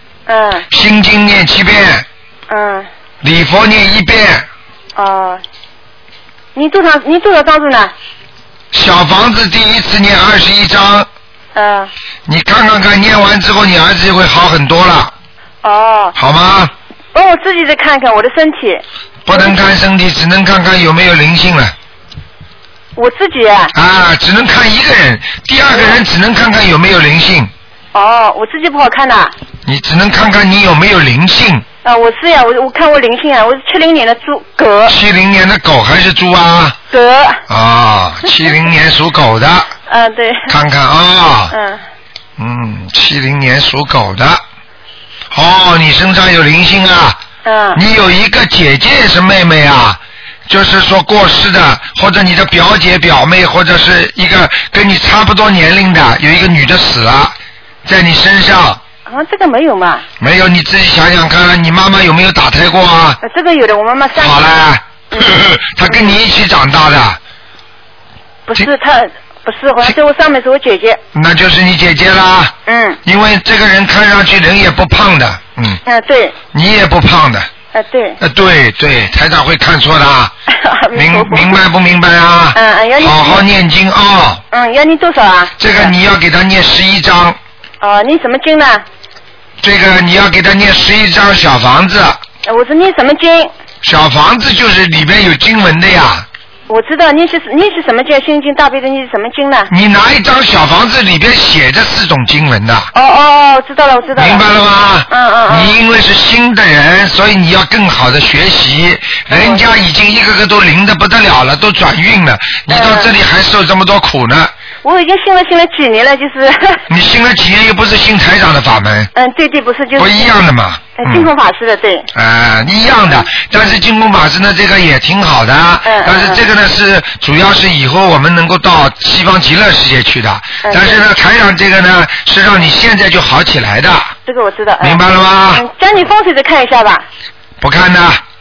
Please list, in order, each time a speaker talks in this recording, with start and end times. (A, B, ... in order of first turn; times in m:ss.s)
0:00.3-0:00.7 A
0:00.7-0:02.1 B
0:02.5-0:02.9 A
0:03.2-0:04.5 B
0:05.0-0:05.4 A
0:06.6-0:07.9 A
0:08.7-0:11.1 B
0:11.6-0:11.9 A
0:12.3-0:15.1 B
0:15.6-0:16.2 A
0:16.2-0:16.7 B
0:17.1-0:19.6 A
0:19.3-0:21.8 B
0:23.0-0:23.7 A
0:23.7-0:27.5 B
0:27.9-0:29.3 A
0:29.7-0:31.6 B
0:31.8-0:35.0 A
0:34.9-0:36.8 B
0:36.9-0:37.4 A
0:37.5-0:39.7 B
0:39.9-0:40.5 A
0:40.5-0:41.5 B
0:41.5-0:41.8 A
0:42.4-0:44.4 B
0:45.3-0:47.2 B
0:47.4-0:47.8 A
0:47.7-0:58.8 B
0:59.1-1:00.1 A
1:00.2-1:03.2 B
1:03.2-1:04.4 A
1:04.2-1:07.2 B
1:05.8-1:06.2 A
1:08.5-1:11.0 A
1:11.1-1:15.8 B
1:12.7-1:13.0 A
1:15.8-1:16.4 A
1:16.5-1:17.5 B
1:17.7-1:18.2 A
1:18.2-1:20.3 B
1:20.5-1:21.6 A
1:20.9-1:24.4 B
1:22.5-1:23.4 A
1:24.5-1:25.9 A
1:25.6-1:27.4 B
1:27.8-1:28.8 A
1:29.6-1:32.2 B
1:32.5-1:33.5 A
1:33.8-1:36.3 B
1:36.7-1:39.7 A
1:39.7-1:42.9 B
1:42.9-1:44.5 A
1:44.2-1:54.5 B
1:45.1-1:45.8 A
1:49.3-1:49.6 A
1:52.7-1:53.1 A
1:54.8-1:56.8 A
1:56.9-1:59.1 B
1:59.2-2:00.4 A
2:00.0-2:01.3 B
2:01.0-2:02.1 A
2:02.1-2:14.1 B
2:05.8-2:06.4 A
2:10.6-2:11.0 A
2:14.3-2:15.0 A
2:14.8-2:15.6 B
2:15.5-2:17.1 A
2:17.6-2:18.2 B